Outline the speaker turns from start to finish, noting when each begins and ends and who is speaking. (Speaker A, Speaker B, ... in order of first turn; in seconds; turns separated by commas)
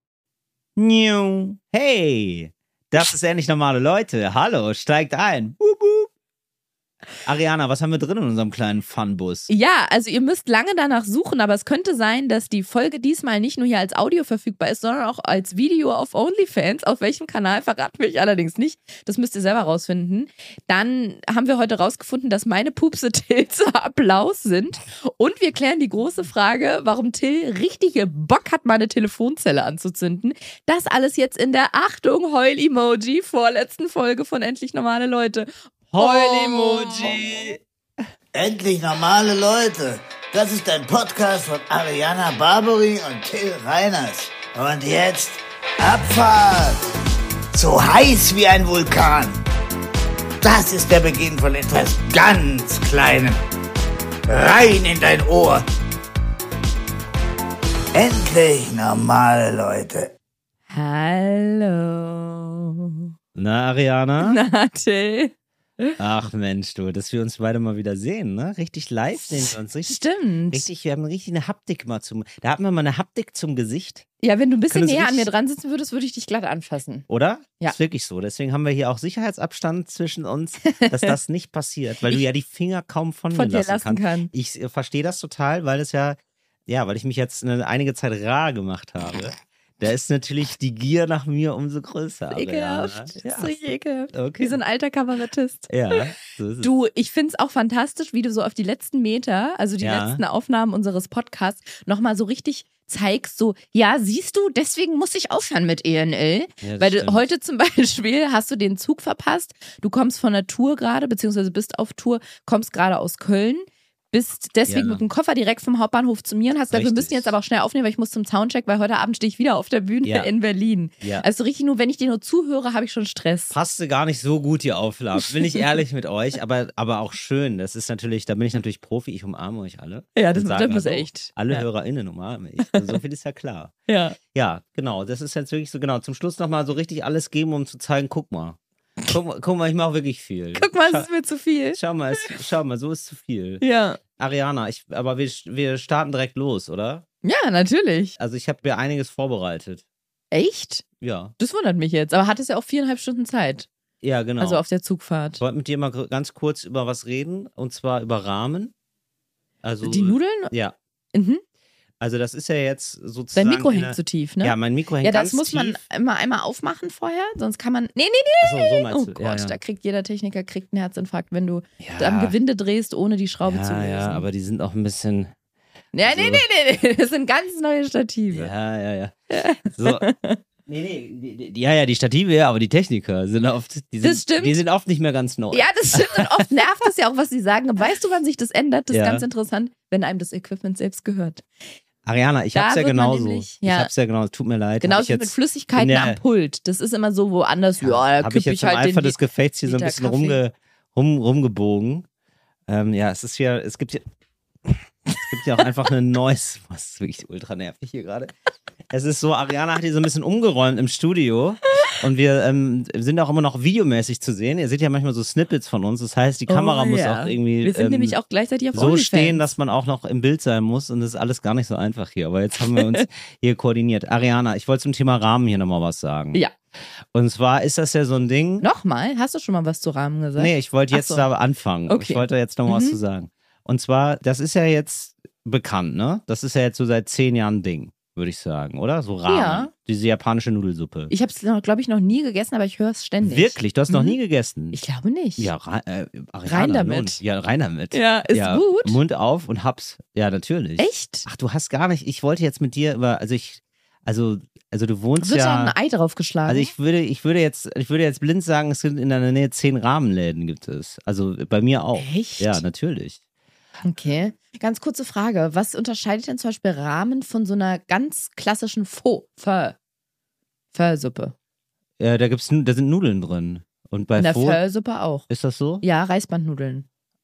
Speaker A: 0.8-6.1, Speaker A: 7.2-9.5, Speaker B: 9.5-37.5, Speaker A: 35.9-37.6, Speaker C: 38.3-46.8, Speaker C: 47.5-49.4, Speaker C: 50.4-53.4, Speaker C: 54.3-55.6, Speaker C: 57.9-60.1, Speaker B: 60.7-63.0, Speaker A: 63.3-64.4, Speaker B: 64.2-66.0, Speaker A: 66.0-74.0, Speaker B: 69.8-70.7, Speaker B: 74.2-77.0, Speaker A: 74.7-75.3, Speaker A: 77.1-93.6, Speaker B: 80.7-81.2, Speaker B: 83.3-84.3, Speaker B: 92.3-95.9, Speaker A: 94.1-94.5, Speaker A: 95.7-96.7, Speaker B: 96.6-123.5, Speaker A: 99.8-100.2, Speaker A: 106.6-107.2, Speaker A: 114.7-115.0, Speaker A: 116.7-117.3, Speaker A: 120.0-120.3, Speaker A: 121.0-121.2, Speaker A: 123.5-133.7, Speaker B: 130.1-131.6, Speaker B: 132.6-132.9, Speaker B: 133.9-134.2, Speaker A: 134.3-141.1, Speaker B: 140.6-142.4, Speaker A: 141.7-143.6, Speaker B: 143.6-144.0, Speaker A: 144.2-147.0, Speaker B: 147.2-148.2, Speaker A: 148.2-149.8, Speaker B: 150.3-150.8, Speaker A: 151.0-151.3, Speaker B: 151.4-153.7, Speaker A: 154.0-154.6, Speaker B: 154.4-155.4, Speaker A: 155.4-158.7, Speaker A: 159.6-160.7, Speaker B: 159.8-160.5, Speaker B: 161.1-161.4, Speaker A: 162.0-165.8, Speaker B: 163.3-174.2, Speaker A: 168.4-169.6, Speaker A: 171.8-172.3, Speaker A: 173.4-175.3, Speaker B: 175.9-178.5, Speaker A: 176.0-176.4, Speaker A: 178.3-180.1, Speaker B: 179.3-180.4, Speaker A: 180.7-186.3, Speaker B: 184.0-184.6, Speaker B: 185.5-191.4, Speaker A: 188.9-189.2, Speaker A: 192.0-196.2, Speaker B: 192.5-193.9, Speaker B: 194.8-200.4, Speaker A: 197.8-202.1, Speaker A: 202.7-204.0, Speaker A: 204.6-208.3, Speaker A: 208.9-218.2, Speaker B: 216.5-219.5, Speaker A: 218.7-226.4, Speaker B: 222.6-223.1, Speaker A: 227.1-228.7, Speaker B: 228.6-231.2, Speaker A: 230.4-241.1, Speaker B: 231.9-233.0, Speaker B: 239.3-239.7, Speaker B: 241.1-244.2, Speaker A: 243.2-244.8, Speaker B: 244.7-245.5, Speaker A: 245.4-255.7, Speaker B: 246.4-247.2, Speaker B: 247.9-249.0, Speaker B: 250.8-251.3, Speaker B: 255.2-256.7, Speaker A: 256.5-263.2, Speaker B: 261.9-262.6, Speaker B: 263.8-269.8, Speaker B: 270.7-271.3, Speaker A: 272.0-274.6, Speaker B: 274.2-275.3, Speaker A: 275.3-275.8, Speaker B: 275.8-276.9